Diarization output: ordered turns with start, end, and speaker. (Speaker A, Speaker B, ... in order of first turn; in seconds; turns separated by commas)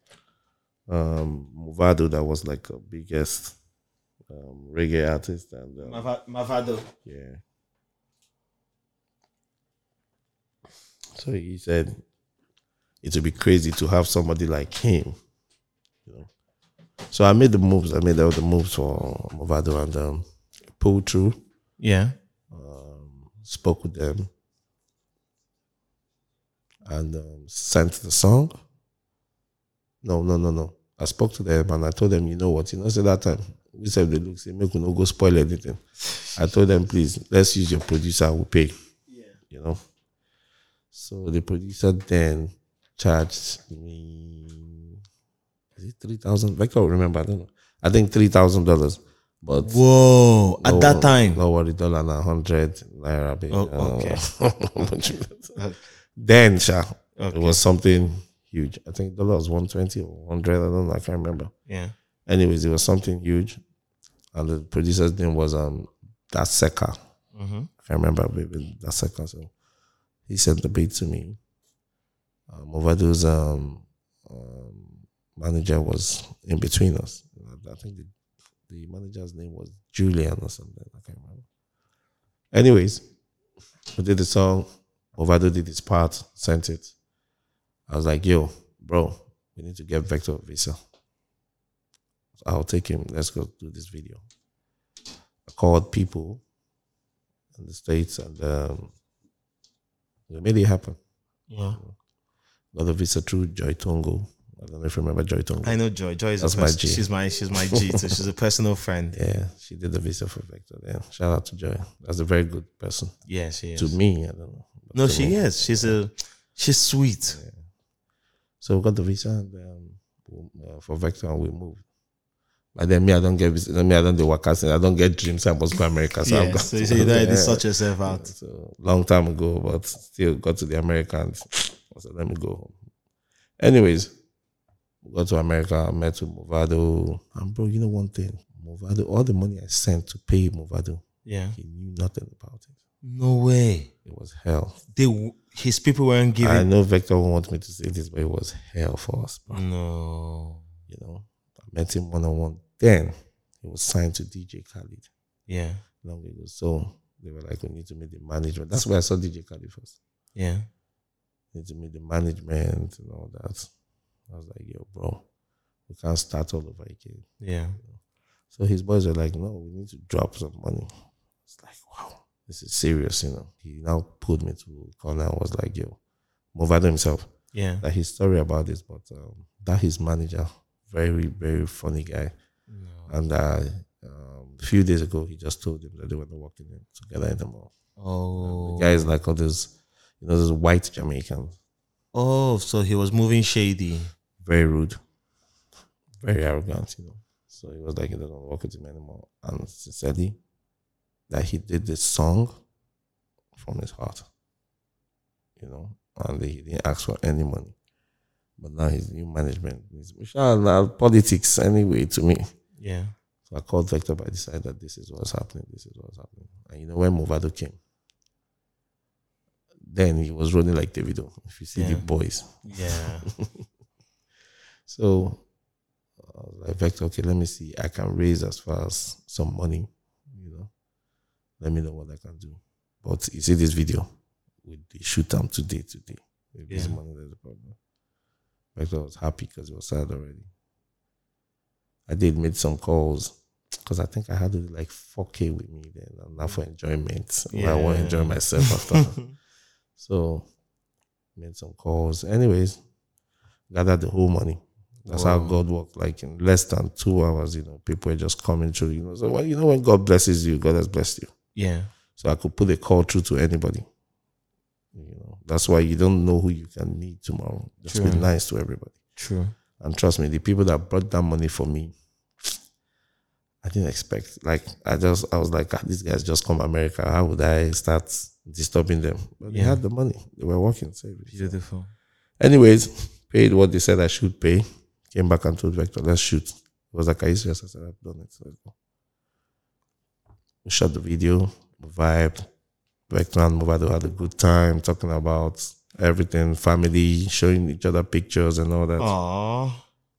Speaker A: 0.9-3.5, Speaker A: 4.3-6.1, Speaker B: 5.8-6.9, Speaker A: 7.0-7.4, Speaker A: 11.1-12.0, Speaker A: 13.0-15.2, Speaker A: 17.1-20.2, Speaker A: 20.8-21.4, Speaker B: 21.8-22.1, Speaker A: 22.5-24.3, Speaker A: 26.8-28.5, Speaker A: 30.0-35.8, Speaker A: 36.3-38.7, Speaker B: 39.1-39.4, Speaker A: 39.5-39.8, Speaker A: 40.9-45.0, Speaker A: 45.8-49.8, Speaker B: 49.6-51.4, Speaker A: 50.6-55.6, Speaker B: 53.5-54.2, Speaker B: 55.5-55.8, Speaker A: 56.1-61.5, Speaker B: 57.2-57.6, Speaker B: 61.7-61.9, Speaker A: 62.3-63.6, Speaker A: 64.3-67.0, Speaker B: 67.3-67.7, Speaker A: 67.8-69.5, Speaker A: 70.3-71.4, Speaker A: 72.5-78.1, Speaker A: 78.7-81.5, Speaker A: 82.5-83.0, Speaker A: 83.9-86.9, Speaker A: 87.9-90.8, Speaker A: 92.4-94.2, Speaker A: 95.5-96.4, Speaker A: 97.5-98.9, Speaker A: 100.3-101.0, Speaker B: 101.5-101.8, Speaker A: 102.7-105.8, Speaker B: 105.6-109.2, Speaker A: 106.4-107.1, Speaker A: 107.7-108.1, Speaker A: 109.1-113.1, Speaker B: 113.3-114.0, Speaker A: 113.8-116.0, Speaker B: 114.9-117.4, Speaker A: 118.6-121.8, Speaker A: 122.7-132.7, Speaker B: 126.2-128.3, Speaker A: 133.6-134.1, Speaker A: 135.0-141.0, Speaker B: 141.2-141.6, Speaker A: 141.6-142.7, Speaker B: 143.0-143.9, Speaker A: 144.0-144.8, Speaker B: 144.9-146.7, Speaker A: 146.4-149.6, Speaker B: 149.5-150.6, Speaker A: 150.9-155.1, Speaker B: 155.5-155.8, Speaker A: 156.0-159.9, Speaker B: 160.3-160.7, Speaker A: 161.5-163.7, Speaker A: 164.3-165.2, Speaker A: 165.9-167.3, Speaker B: 167.4-167.8, Speaker A: 168.5-170.9, Speaker A: 171.5-176.0, Speaker A: 176.5-177.3, Speaker B: 177.5-177.8, Speaker A: 177.8-182.3, Speaker B: 182.7-183.1, Speaker A: 183.1-187.7, Speaker B: 188.0-189.1, Speaker A: 188.4-191.6, Speaker B: 192.1-194.1, Speaker A: 194.4-195.0, Speaker A: 196.2-200.4, Speaker A: 201.3-202.5, Speaker A: 203.6-204.2, Speaker A: 205.6-207.7, Speaker A: 208.6-212.4, Speaker B: 212.8-213.1, Speaker A: 213.5-217.8, Speaker A: 219.8-223.6, Speaker B: 221.7-222.1, Speaker B: 222.6-223.3, Speaker A: 224.9-225.4, Speaker A: 226.2-230.7, Speaker A: 231.6-234.1, Speaker A: 234.6-237.8, Speaker B: 236.7-237.0, Speaker A: 238.7-240.5, Speaker A: 242.1-249.2, Speaker B: 247.5-249.1, Speaker A: 249.9-250.4, Speaker A: 251.3-252.8, Speaker A: 253.7-261.3, Speaker B: 255.1-255.6, Speaker B: 261.5-261.9, Speaker A: 262.2-263.9, Speaker A: 264.9-268.9, Speaker B: 267.9-268.3, Speaker B: 269.2-269.5, Speaker A: 269.8-272.5, Speaker A: 273.6-281.6, Speaker B: 279.5-279.8, Speaker B: 281.3-281.9, Speaker A: 282.4-288.7, Speaker A: 290.6-292.5, Speaker A: 293.1-299.1, Speaker B: 299.0-299.8